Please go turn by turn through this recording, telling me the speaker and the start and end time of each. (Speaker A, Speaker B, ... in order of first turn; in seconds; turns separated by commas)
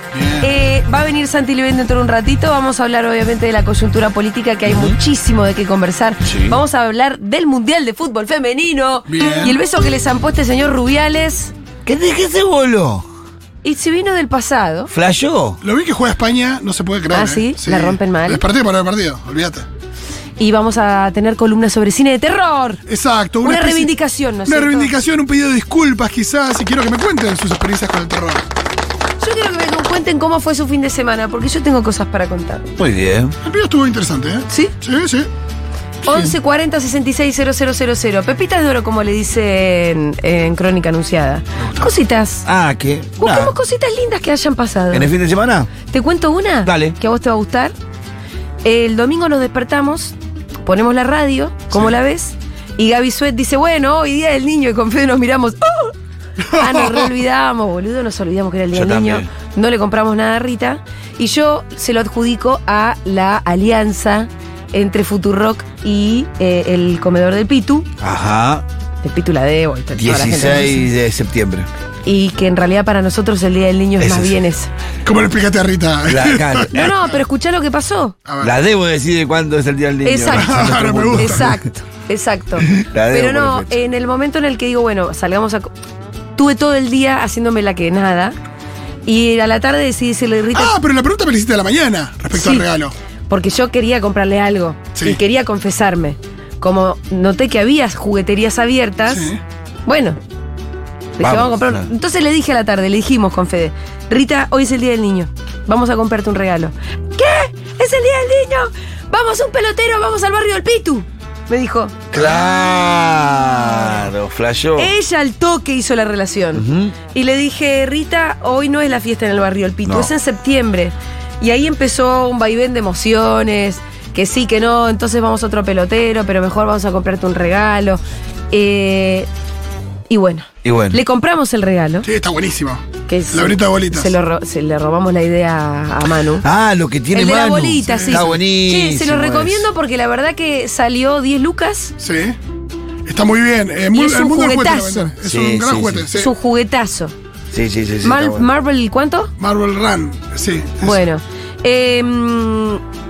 Speaker A: 0.1-0.5, Speaker B: 0.4-11.5, Speaker C: 4.7-5.0, Speaker C: 6.2-6.6, Speaker A: 9.1-9.6, Speaker C: 11.8-13.1, Speaker B: 13.6-14.9, Speaker C: 14.9-15.6, Speaker A: 15.6-19.6, Speaker B: 17.1-18.4, Speaker B: 20.4-22.8, Speaker A: 22.9-23.9, Speaker B: 23.4-24.9, Speaker A: 24.4-28.5, Speaker B: 29.2-32.8, Speaker C: 32.8-33.4, Speaker A: 33.4-35.3, Speaker B: 34.5-34.7, Speaker B: 36.0-42.5, Speaker A: 36.0-36.3, Speaker A: 41.6-41.9, Speaker C: 42.5-43.5, Speaker B: 43.2-45.1, Speaker C: 44.9-45.7, Speaker B: 45.9-47.7, Speaker C: 46.6-47.0, Speaker B: 48.6-56.0, Speaker B: 56.5-67.9, Speaker A: 56.6-57.0, Speaker C: 58.7-59.3, Speaker C: 68.0-68.6, Speaker B: 69.0-70.9, Speaker C: 70.0-71.7, Speaker B: 72.0-74.7, Speaker C: 74.0-74.4, Speaker A: 75.0-76.9, Speaker C: 76.1-77.0, Speaker B: 76.7-78.2, Speaker A: 78.3-78.5, Speaker C: 78.4-81.6, Speaker B: 80.0-85.7, Speaker A: 80.3-81.5, Speaker C: 82.6-83.8, Speaker B: 86.4-88.4, Speaker B: 89.1-90.7, Speaker A: 90.5-92.9, Speaker B: 92.3-92.7, Speaker B: 93.3-99.3, Speaker A: 99.1-99.4, Speaker B: 99.9-100.2, Speaker B: 101.2-112.0, Speaker C: 101.2-101.9, Speaker C: 112.1-114.9, Speaker B: 114.8-129.3, Speaker C: 116.5-117.0, Speaker C: 119.8-120.1, Speaker B: 130.1-132.1, Speaker C: 130.6-131.0, Speaker A: 132.0-134.1, Speaker B: 133.1-136.4, Speaker C: 136.2-139.7, Speaker B: 137.1-141.9, Speaker A: 137.9-138.4, Speaker A: 142.0-142.4, Speaker A: 143.1-146.3, Speaker B: 143.9-145.1, Speaker C: 145.2-146.1, Speaker B: 146.1-147.1, Speaker C: 147.5-148.5, Speaker B: 148.0-149.3, Speaker A: 149.4-151.0, Speaker B: 150.8-152.8